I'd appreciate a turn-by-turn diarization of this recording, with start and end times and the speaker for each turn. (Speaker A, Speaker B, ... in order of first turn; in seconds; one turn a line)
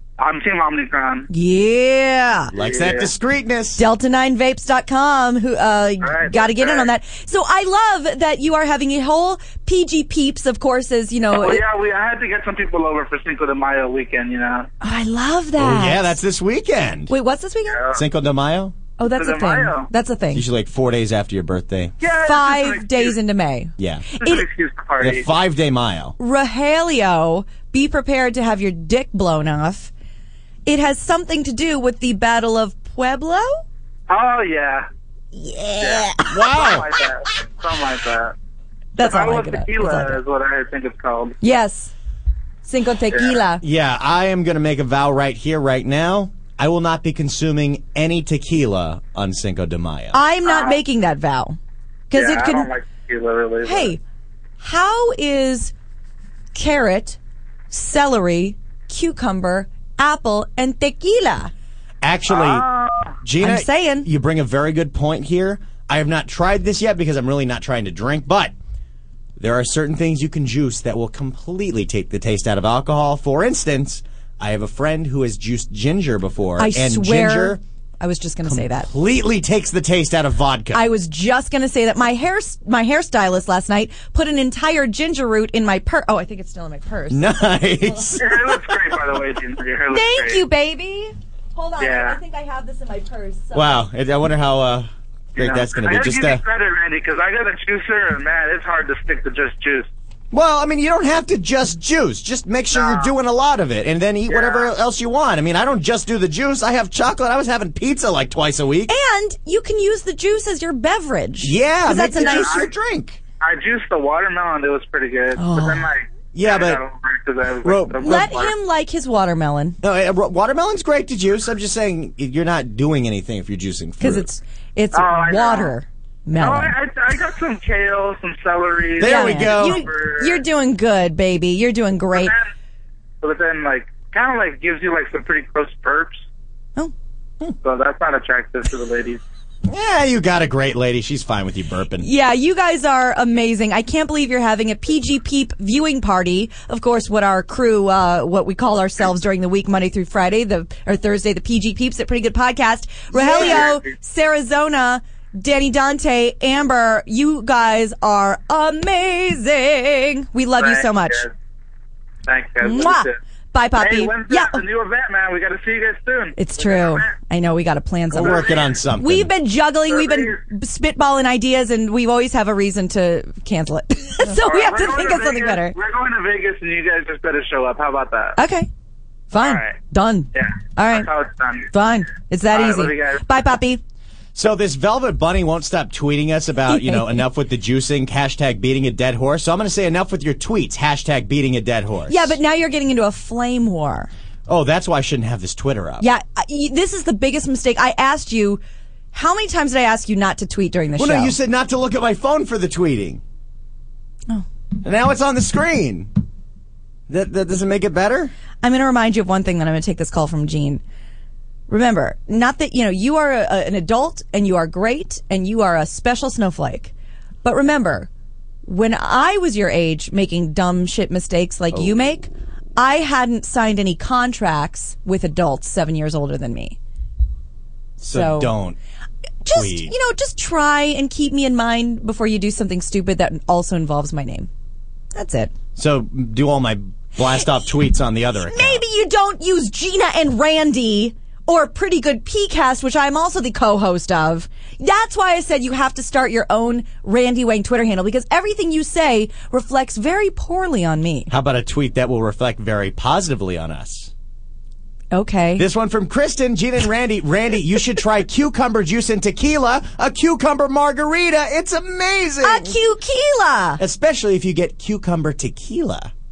Speaker A: 0.2-1.3
Speaker B: 1.3-2.5
Speaker C: 2.5-3.8
Speaker A: 2.6-3.1
Speaker B: 3.8-11.6
Speaker A: 6.0-6.9
Speaker A: 11.3-14.7
Speaker B: 14.8-16.2
Speaker C: 15.6-17.1
Speaker B: 17.1-17.8
Speaker A: 17.8-18.0
Speaker C: 17.9-18.8
Speaker B: 19.0-20.5
Speaker A: 19.1-19.9
Speaker C: 20.3-22.0
Speaker A: 22.0-23.2
Speaker B: 22.1-24.5
Speaker C: 23.8-24.1
Speaker A: 24.2-25.3
Speaker C: 25.0-26.2
Speaker B: 26.2-29.9
Speaker B: 30.7-33.6
Speaker A: 34.1-34.9
Speaker B: 35.3-36.7
Speaker A: 35.8-38.4
Speaker C: 36.3-36.9
Speaker B: 39.0-40.2
Speaker A: 39.0-41.4
Speaker B: 41.4-41.9
Speaker B: 42.6-43.6
Speaker A: 43.1-43.4
Speaker C: 43.6-50.2
Speaker B: 50.1-51.6
Speaker A: 50.5-50.8
Speaker B: 52.1-52.7
Speaker A: 52.1-54.0
Speaker B: 53.6-54.0
Speaker B: 54.6-55.7
Speaker B: 56.5-57.2
Speaker B: 57.7-61.5
Speaker C: 62.0-62.7
Speaker A: 62.3-63.1
Speaker C: 63.2-68.5
Speaker B: 63.4-64.1
Speaker C: 69.4-77.6
Speaker B: 76.6-78.9
Speaker C: 78.5-80.9
Speaker B: 80.7-87.3
Speaker C: 87.1-89.0
Speaker A: 88.2-90.4
Speaker B: 89.9-93.8
Speaker A: 91.8-92.2
Speaker C: 93.5-96.4
Speaker A: 95.4-99.9
Speaker C: 100.3-108.9
Speaker A: 102.7-103.1
Speaker A: 104.3-104.7
Speaker B: 108.9-112.7
Speaker C: 111.4-113.2
Speaker A: 112.1-112.7
Speaker A: 113.4-118.5
Speaker B: 115.3-115.9
Speaker C: 116.3-116.8
Speaker C: 117.6-118.3
Speaker B: 118.0-119.8
Speaker C: 119.8-124.3
Speaker B: 124.0-126.8
Speaker A: 124.9-125.8
Speaker A: 126.4-130.4
Speaker C: 129.0-129.9
Speaker B: 129.0-132.3
Speaker A: 132.1-132.5
Speaker A: 133.2-136.2
Speaker A: 137.6-139.2
Speaker C: 139.7-142.1
Speaker B: 142.0-161.3
Speaker A: 153.1-153.9
Speaker C: 153.2-153.8
Speaker A: 160.6-161.3
Speaker A: 162.3-163.2
Speaker B: 162.6-164.6
Speaker A: 163.8-167.1
Speaker B: 166.4-175.8
Speaker C: 168.1-169.3
Speaker A: 168.2-168.7
Speaker A: 169.9-170.4
Speaker A: 174.3-178.4
Speaker B: 178.4-178.7
Speaker B: 179.3-181.1
Speaker A: 179.3-179.8
Speaker A: 180.3-181.7
Speaker B: 181.7-183.8
Speaker A: 182.5-183.4
Speaker C: 184.3-192.4
Speaker B: 186.7-187.2
Speaker B: 192.1-194.1
Speaker C: 194.5-196.1
Speaker B: 196.0-198.6
Speaker B: 199.1-201.3
Speaker C: 201.0-203.2
Speaker C: 204.8-206.1
Speaker C: 207.1-208.3
Speaker B: 208.6-210.8
Speaker B: 211.7-216.9
Speaker B: 217.4-218.1
Speaker B: 218.7-226.8
Speaker C: 221.7-222.1
Speaker C: 228.0-228.8
Speaker B: 228.1-228.5
Speaker B: 229.4-234.5
Speaker C: 229.5-229.9
Speaker B: 235.1-235.5
Speaker C: 235.8-238.8
Speaker B: 238.4-251.3
Speaker C: 251.3-254.1
Speaker B: 255.1-255.7
Speaker C: 255.6-262.8
Speaker B: 262.4-263.8
Speaker C: 263.8-266.1